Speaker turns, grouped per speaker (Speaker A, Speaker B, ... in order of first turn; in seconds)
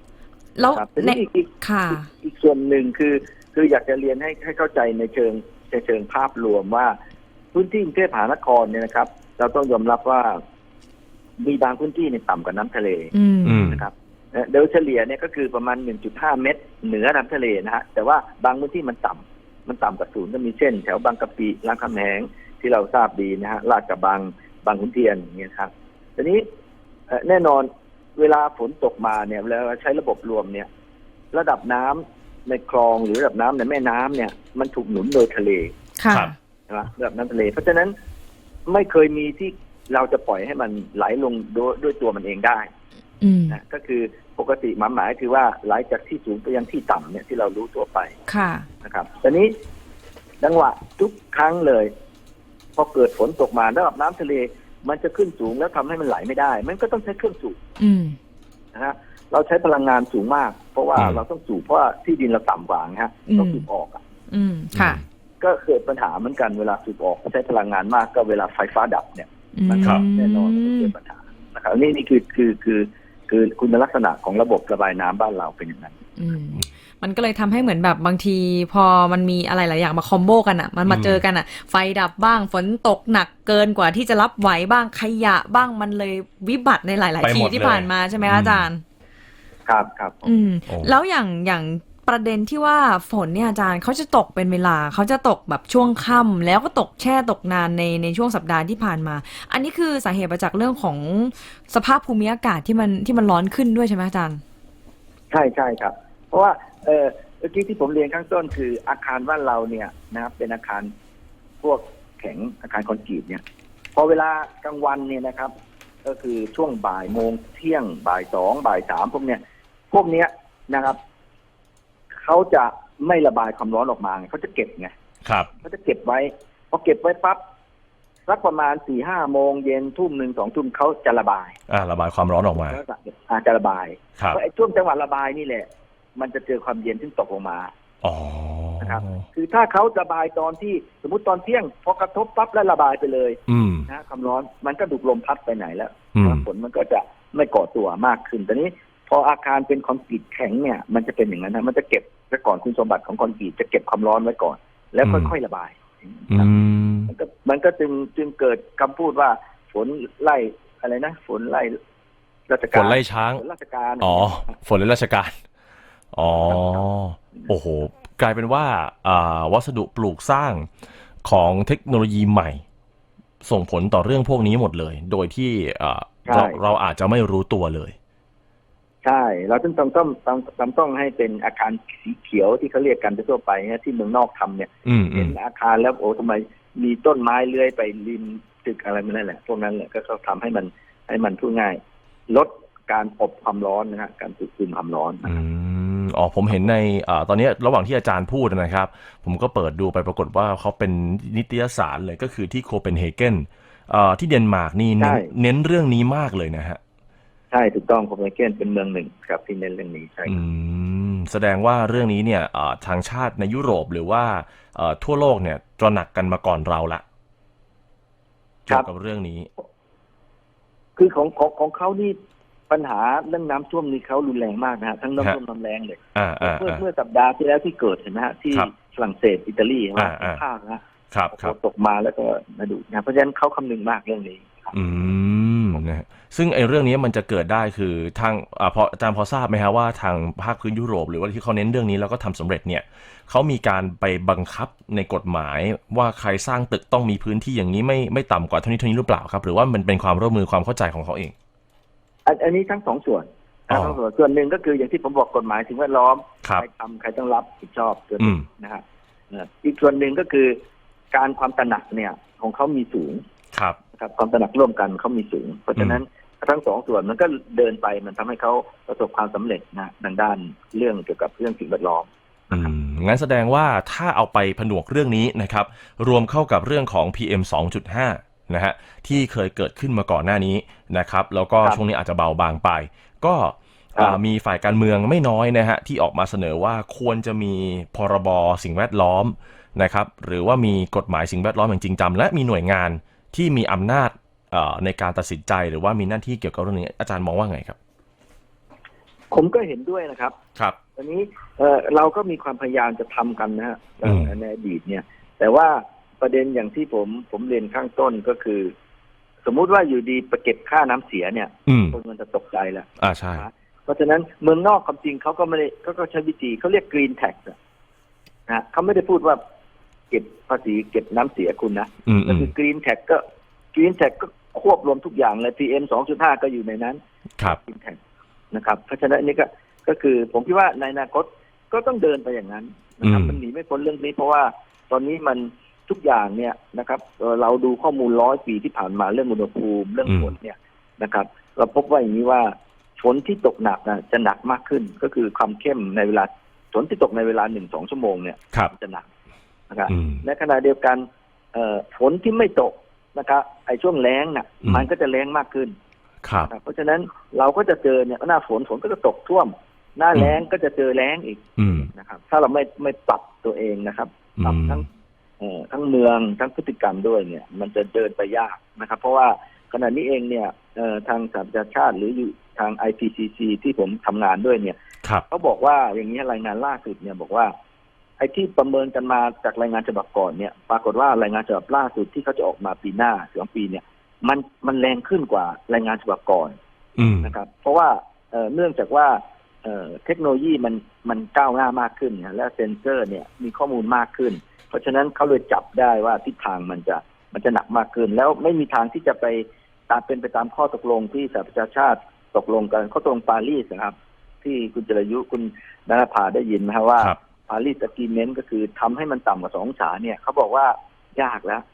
Speaker A: 0.5-2.1, 13.1-13.7, 36.0-36.3, 43.2-43.6, 48.3-48.6, 57.8-58.2, 63.3-63.6, 64.3-65.0, 69.5-70.9, 76.2-88.8, 90.2-104.4
Speaker B: 0.7-6.9, 7.5-10.4, 11.4-13.1, 13.7-26.4, 27.1-30.7, 31.3-35.8, 36.7-37.9, 38.7-42.7, 43.5-48.1, 48.8-49.5, 50.4-51.9, 52.8-57.6, 58.7-64.0, 65.4-76.0, 89.7-90.2, 105.3-110.9, 111.6-113.4, 113.9-115.5, 116.0-119.4, 119.9-121.0, 122.1-124.9, 125.6-127.4, 128.3-131.6, 132.6-137.7, 138.8-156.5, 157.1-161.8, 162.5-164.5, 166.3-166.8, 176.2-176.6, 179.0-195.4, 205.0-205.3, 207.5-210.4, 221.0-222.2, 222.7-230.8, 231.3-234.7, 252.2-260.5, 261.1-263.2, 264.0-272.7, 299.3-300.4, 301.0-308.7, 309.4-317.5, 318.5-319.4, 320.1-323.2, 323.7-328.0, 328.5-349.1, 349.7-355.7, 356.5-364.9, 365.4-374.7, 375.3-377.5, 378.2-386.6, 387.2-411.6
Speaker C: 13.4-13.8, 64.8-65.0, 80.9-81.2, 87.2-88.7, 90.7-90.9, 125.2-125.5, 131.7-132.8, 138.0-139.2, 143.5-143.9, 146.1-146.4, 155.0-155.3, 156.3-157.1, 162.7-163.4, 164.0-165.3, 166.1-170.7, 171.2-172.6, 173.4-177.9, 184.9-185.3, 195.2-206.8, 210.2-217.0, 218.7-219.5, 226.2-226.8, 230.0-230.4, 231.1-231.5, 234.7-251.3, 253.7-254.0, 258.2-258.4, 263.5-263.8, 272.5-297.8, 304.0-304.3, 311.7-312.0, 313.0-313.5, 322.1-322.5, 333.0-333.4, 340.1-340.3, 349.9-350.2, 356.2-356.5, 361.6-361.9, 364.4-364.9, 387.0-387.3